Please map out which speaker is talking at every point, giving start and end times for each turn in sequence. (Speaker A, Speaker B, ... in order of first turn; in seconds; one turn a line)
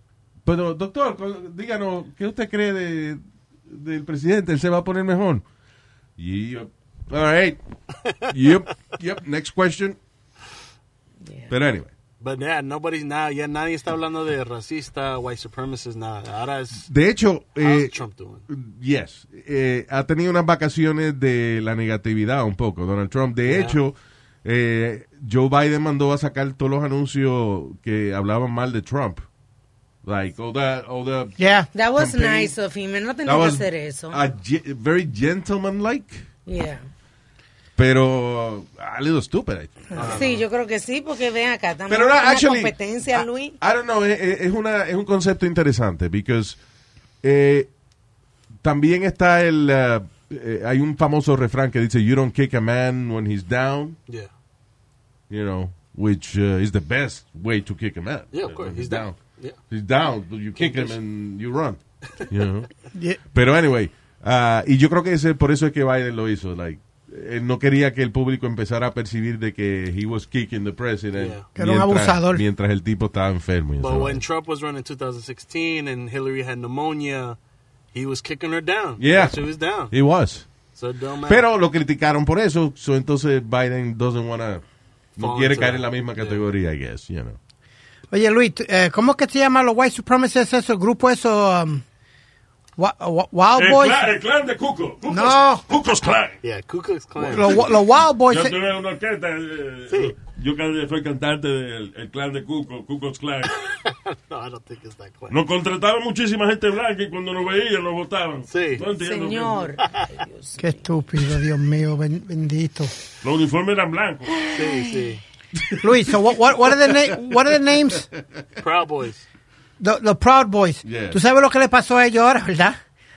Speaker A: 0.4-5.5
Speaker A: 6.2-7.6
Speaker A: 8.2-10.0
Speaker B: 11.2-11.5
Speaker A: 11.5-11.9
Speaker C: 12.2-16.9
Speaker A: 16.8-17.9
Speaker C: 17.6-18.5
Speaker A: 18.5-29.2
Speaker C: 23.5-23.8
Speaker A: 30.0-31.4
Speaker D: 31.4-31.7
Speaker B: 31.7-34.2
Speaker A: 31.9-32.5
Speaker A: 33.2-36.2
Speaker B: 36.5-36.8
Speaker A: 37.8-40.2
Speaker C: 40.0-40.4
Speaker B: 40.0-43.6
Speaker A: 41.9-46.6
Speaker A: 47.2-47.7
Speaker A: 48.6-54.0
Speaker A: 55.3-59.2
Speaker C: 58.3-59.6
Speaker A: 59.7-62.7
Speaker C: 60.6-61.0
Speaker D: 62.9-63.2
Speaker A: 63.3-74.2
Speaker C: 71.2-71.5
Speaker D: 71.6-72.4
Speaker C: 73.8-77.4
Speaker C: 77.9-80.0
Speaker A: 79.0-80.5
Speaker C: 80.7-81.5
Speaker A: 81.3-84.6
Speaker A: 85.2-87.4
Speaker C: 85.2-86.4
Speaker D: 88.1-91.8
Speaker D: 92.8-94.1
Speaker E: 93.5-96.4
Speaker D: 95.1-95.7
Speaker C: 96.4-97.7
Speaker D: 97.3-98.6
Speaker E: 97.3-97.6
Speaker E: 98.3-103.6
Speaker C: 99.9-100.2
Speaker C: 103.6-105.4
Speaker E: 105.3-109.7
Speaker C: 108.5-108.8
Speaker B: 109.0-110.9
Speaker D: 110.6-112.9
Speaker E: 113.2-114.5
Speaker B: 114.5-114.9
Speaker C: 114.5-115.2
Speaker A: 115.7-116.0
Speaker D: 115.8-118.1
Speaker A: 116.6-118.2
Speaker C: 118.6-119.2
Speaker D: 119.8-122.8
Speaker A: 120.8-121.2